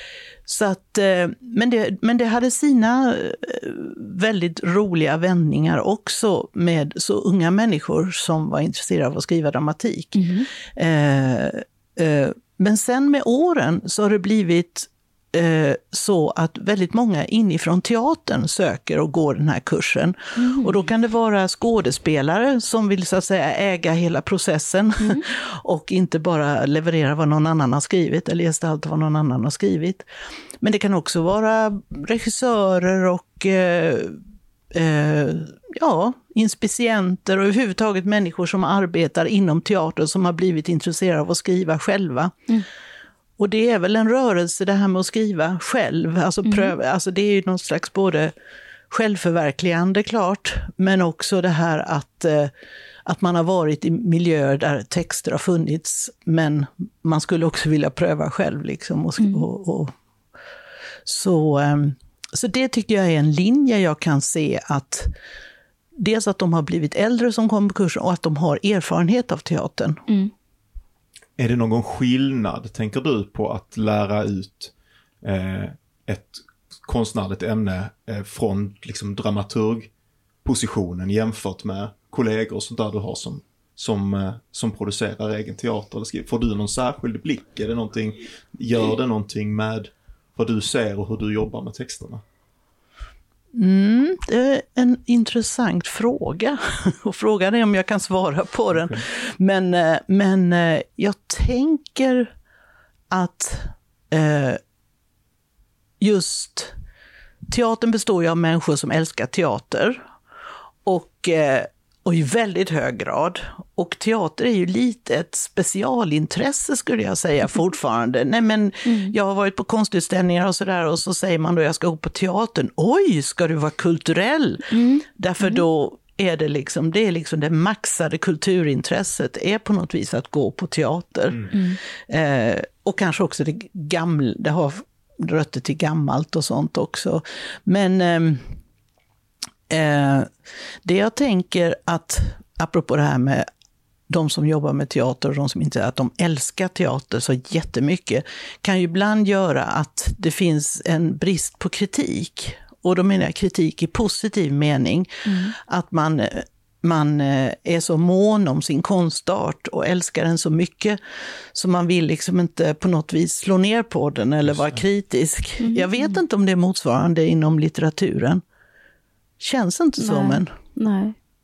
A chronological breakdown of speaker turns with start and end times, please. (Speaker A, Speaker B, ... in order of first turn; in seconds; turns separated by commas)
Speaker A: 0.5-30.1, Speaker B: 10.2-10.5, Speaker B: 20.4-20.7, Speaker A: 30.6-34.2, Speaker A: 34.7-42.4, Speaker A: 43.4-48.3, Speaker B: 46.5-46.7, Speaker A: 48.9-52.5, Speaker A: 53.0-59.9, Speaker B: 59.2-59.5, Speaker A: 61.0-65.1, Speaker A: 66.0-70.0, Speaker C: 71.4-79.9, Speaker C: 80.4-92.2, Speaker A: 93.5-102.3, Speaker C: 98.7-99.0, Speaker A: 103.1-104.6, Speaker A: 106.0-106.7, Speaker A: 107.5-110.0, Speaker A: 110.8-138.5, Speaker B: 118.9-119.1, Speaker B: 124.7-125.6, Speaker B: 131.5-131.8, Speaker A: 139.7-143.4, Speaker A: 144.1-161.0, Speaker B: 155.3-155.5, Speaker A: 161.5-168.4, Speaker B: 165.6-166.1, Speaker A: 169.4-170.5, Speaker B: 170.0-171.2